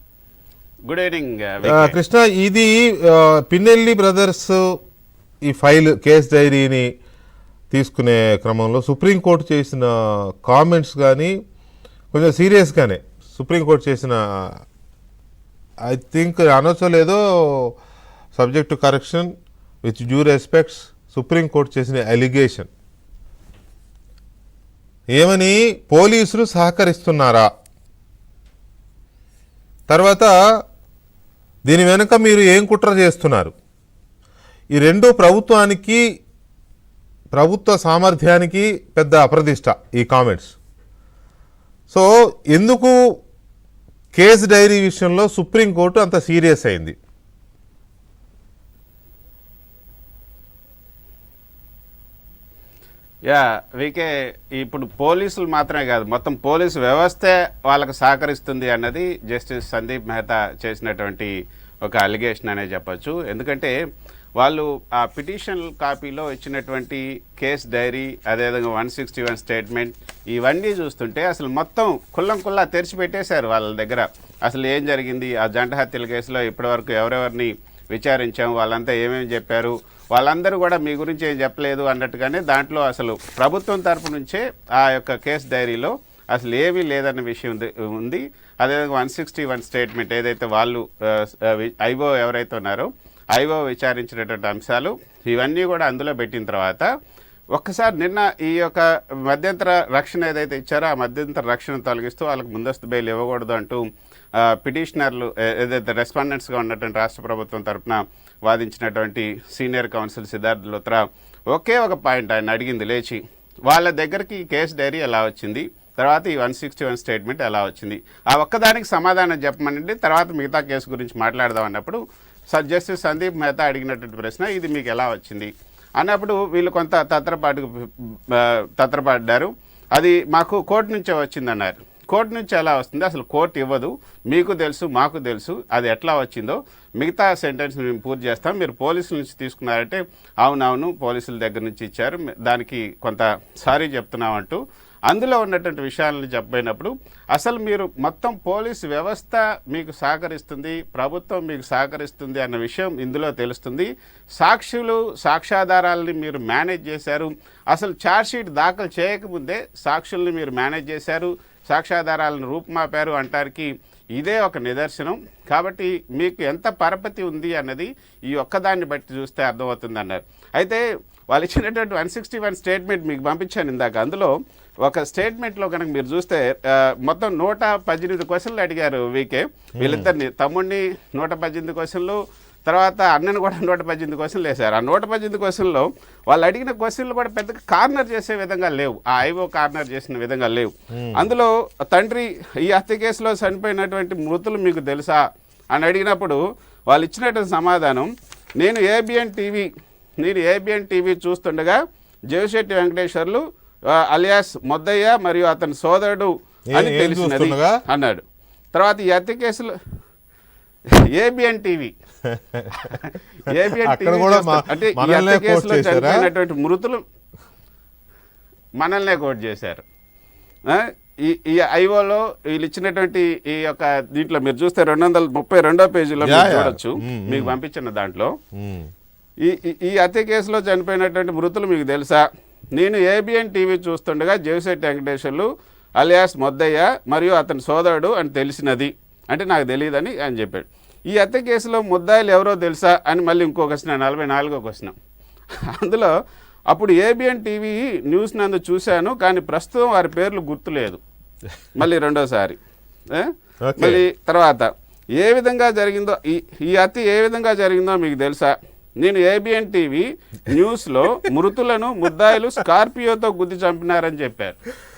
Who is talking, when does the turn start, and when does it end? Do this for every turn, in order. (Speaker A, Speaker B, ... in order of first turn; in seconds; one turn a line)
Speaker A: 0.9-2.0
Speaker B: 1.6-4.7
Speaker B: 5.5-6.9
Speaker B: 7.7-11.3
Speaker B: 12.1-14.2
Speaker B: 15.9-17.7
Speaker B: 18.3-19.3
Speaker B: 19.8-22.7
Speaker B: 25.1-27.5
Speaker B: 29.9-30.3
Speaker B: 31.7-33.5
Speaker B: 34.7-36.0
Speaker B: 37.3-40.5
Speaker B: 41.9-42.9
Speaker B: 44.1-46.9
Speaker A: 53.3-61.3
Speaker A: 61.8-63.7
Speaker A: 64.4-96.9
Speaker A: 97.5-103.8
Speaker A: 104.3-199.7
Speaker B: 179.8-180.1
Speaker B: 190.9-191.2
Speaker A: 200.2-208.2
Speaker B: 206.7-207.8
Speaker A: 208.7-209.7
Speaker A: 211.1-211.9
Speaker B: 212.3-212.7
Speaker A: 212.7-217.0
Speaker B: 213.8-216.2
Speaker A: 218.8-219.8
Speaker A: 220.7-228.3
Speaker B: 226.2-227.5
Speaker B: 228.5-228.9
Speaker A: 229.4-244.9
Speaker A: 245.7-246.1
Speaker A: 246.7-251.0
Speaker A: 251.8-252.6
Speaker A: 253.1-264.6
Speaker B: 253.6-254.0